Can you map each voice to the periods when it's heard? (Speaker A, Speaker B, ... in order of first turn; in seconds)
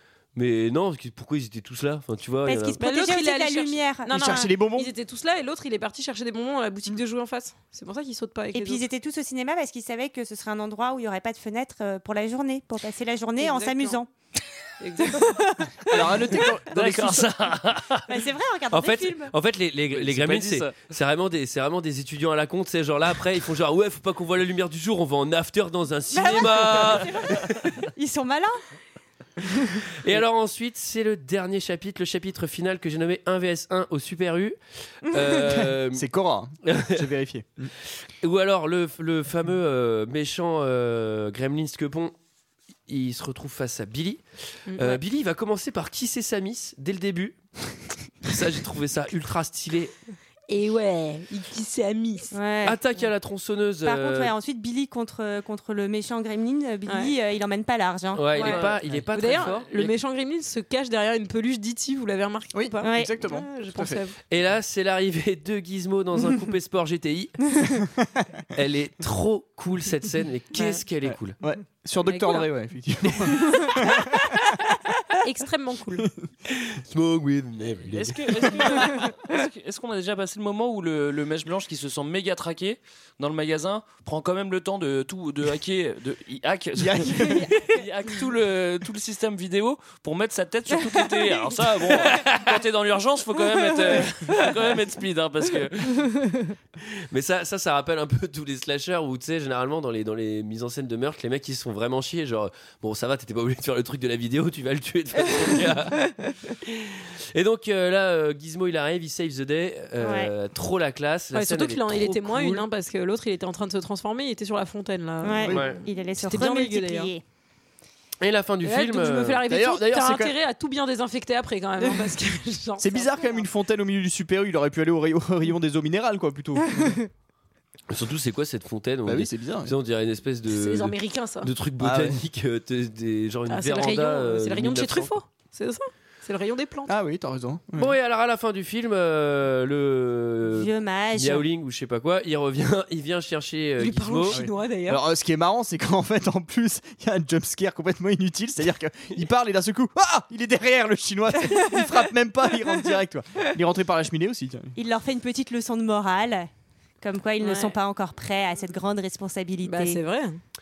Speaker A: 0.3-2.8, 18.7-27.4, 30.0-36.0, 36.6-37.0, 38.2-42.1, 42.9-44.2, 44.8-47.4, 48.2-49.9, 52.6-54.3, 58.1-59.6, 64.3-67.5, 68.5-71.4, 76.5-78.5, 97.1-112.6, 115.5-115.8, 118.2-119.4, 127.9-135.1, 137.8-144.4
Speaker B: 2.5-4.5, 8.5-14.1, 18.1-19.3, 26.1-28.6, 52.3-52.8, 53.8-58.4, 62.8-63.2, 110.0-110.3, 115.2-117.2, 140.5-141.5, 154.8-156.5, 157.0-160.0
Speaker C: 2.8-8.8, 13.4-14.0, 14.8-15.5, 44.7-45.0, 50.5-52.3, 56.9-57.1, 58.3-58.6, 59.1-64.2, 72.1-72.5, 73.3-73.8, 75.2-76.1, 111.3-117.1, 118.6-123.4, 130.5-131.5, 133.5-137.0, 143.8-145.0, 157.4-157.8, 159.6-160.4
Speaker D: 4.1-4.9, 15.9-17.5, 35.9-37.7, 62.5-64.0, 71.0-74.5, 86.8-87.5, 115.5-115.7, 119.5-120.3, 122.8-127.0, 129.1-129.7, 131.8-132.2, 136.9-137.9, 144.3-154.7
Speaker E: 16.7-18.1, 19.9-20.8, 58.4-59.9, 77.9-96.2